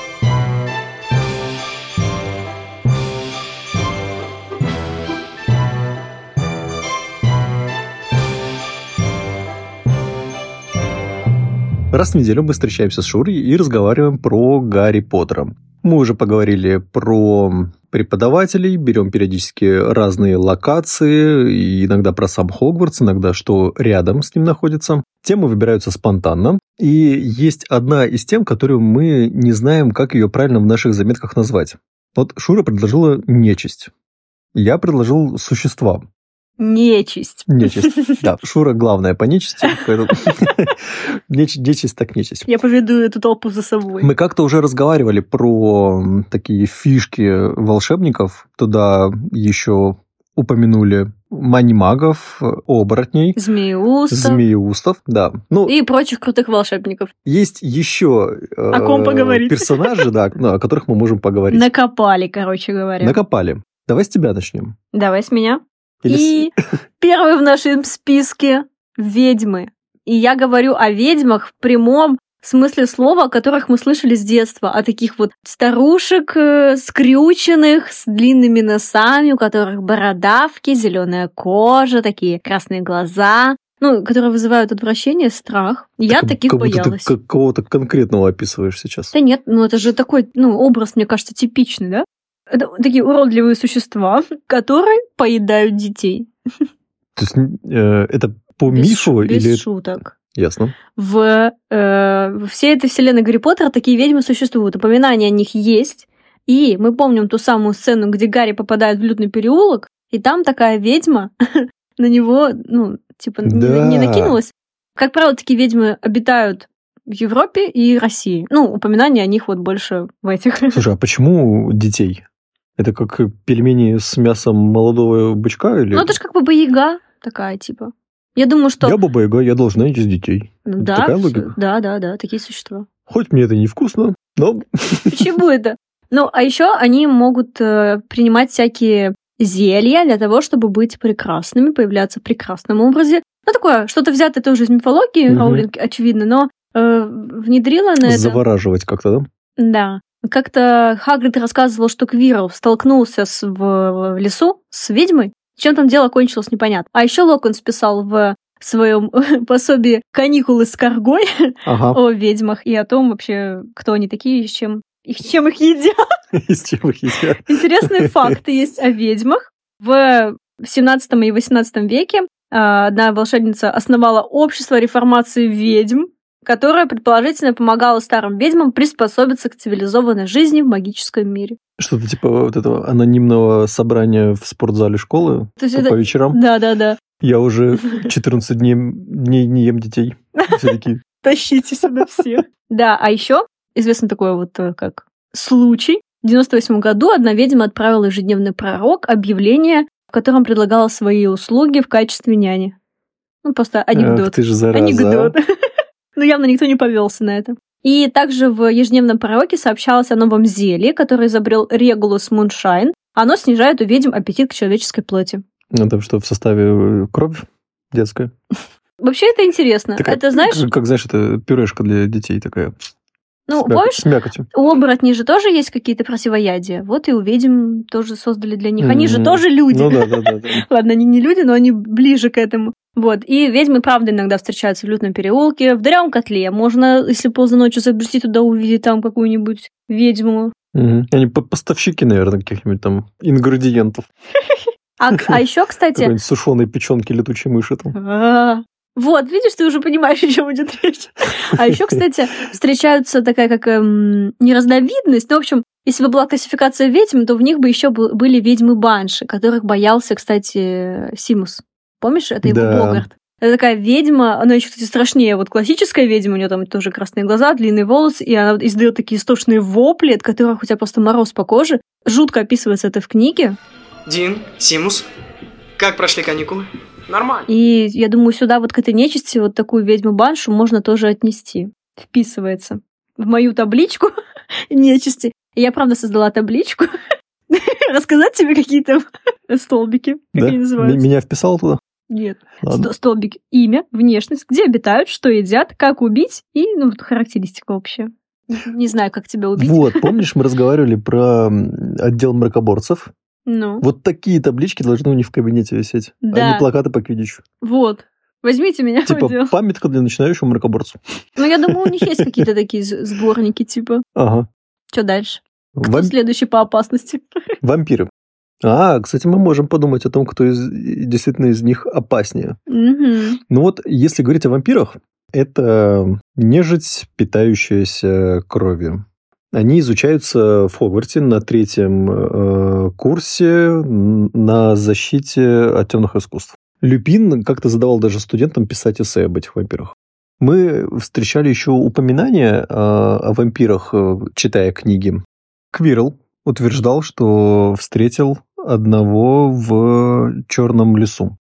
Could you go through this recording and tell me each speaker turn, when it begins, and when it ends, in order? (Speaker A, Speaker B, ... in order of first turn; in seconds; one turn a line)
Speaker A: 11.9-33.9
Speaker A: 34.5-36.0
Speaker B: 36.6-38.1
Speaker A: 37.5-42.5
Speaker B: 42.5-44.1
Speaker A: 44.0-53.4
Speaker B: 53.4-54.4
Speaker A: 54.1-55.8
Speaker B: 55.7-57.1
Speaker A: 57.2-61.7
Speaker B: 58.7-60.1
Speaker B: 61.5-63.2
Speaker A: 63.0-64.8
Speaker B: 64.9-87.1
Speaker A: 66.0-66.5
Speaker A: 86.1-89.1
Speaker B: 89.1-96.3
Speaker A: 97.2-100.8
Speaker B: 98.7-100.1
Speaker B: 101.0-120.8
Speaker A: 113.5-114.4
Speaker A: 120.7-122.2
Speaker A: 122.8-126.2
Speaker B: 125.9-129.0
Speaker A: 128.8-131.6
Speaker B: 130.7-132.9
Speaker A: 133.1-135.3
Speaker B: 135.1-148.4
Speaker A: 145.3-145.7
Speaker A: 148.0-149.3
Speaker B: 149.6-166.0
Speaker A: 161.7-162.0
Speaker A: 166.3-168.4
Speaker B: 167.5-181.6
Speaker A: 181.8-186.4
Speaker B: 185.6-187.0
Speaker A: 187.2-191.0
Speaker B: 190.4-190.7
Speaker B: 191.2-202.7
Speaker B: 203.4-205.4
Speaker A: 203.9-205.3
Speaker B: 206.2-215.4
Speaker A: 215.7-218.3
Speaker B: 219.0-220.6
Speaker A: 220.0-222.7
Speaker B: 223.5-240.5
Speaker A: 223.6-224.5
Speaker A: 228.8-230.6
Speaker A: 240.7-244.1
Speaker B: 244.5-246.1
Speaker A: 245.9-247.9
Speaker B: 247.9-273.6
Speaker A: 251.6-252.0
Speaker A: 262.4-263.1
Speaker C: 274.1-275.1
Speaker C: 275.8-277.5
Speaker B: 277.5-284.1
Speaker B: 284.7-286.9
Speaker B: 287.5-291.0
Speaker A: 290.4-291.8
Speaker B: 292.1-300.2
Speaker A: 292.6-292.9
Speaker A: 299.6-303.1
Speaker B: 303.5-303.8
Speaker A: 303.8-307.4
Speaker B: 306.2-306.6
Speaker B: 307.6-309.5
Speaker A: 309.1-311.0
Speaker B: 311.4-314.0
Speaker A: 311.7-312.2
Speaker A: 314.2-314.5
Speaker B: 314.9-317.2
Speaker A: 315.8-316.1
Speaker A: 317.6-318.1
Speaker A: 318.6-322.6
Speaker B: 322.7-323.4
Speaker A: 323.5-351.4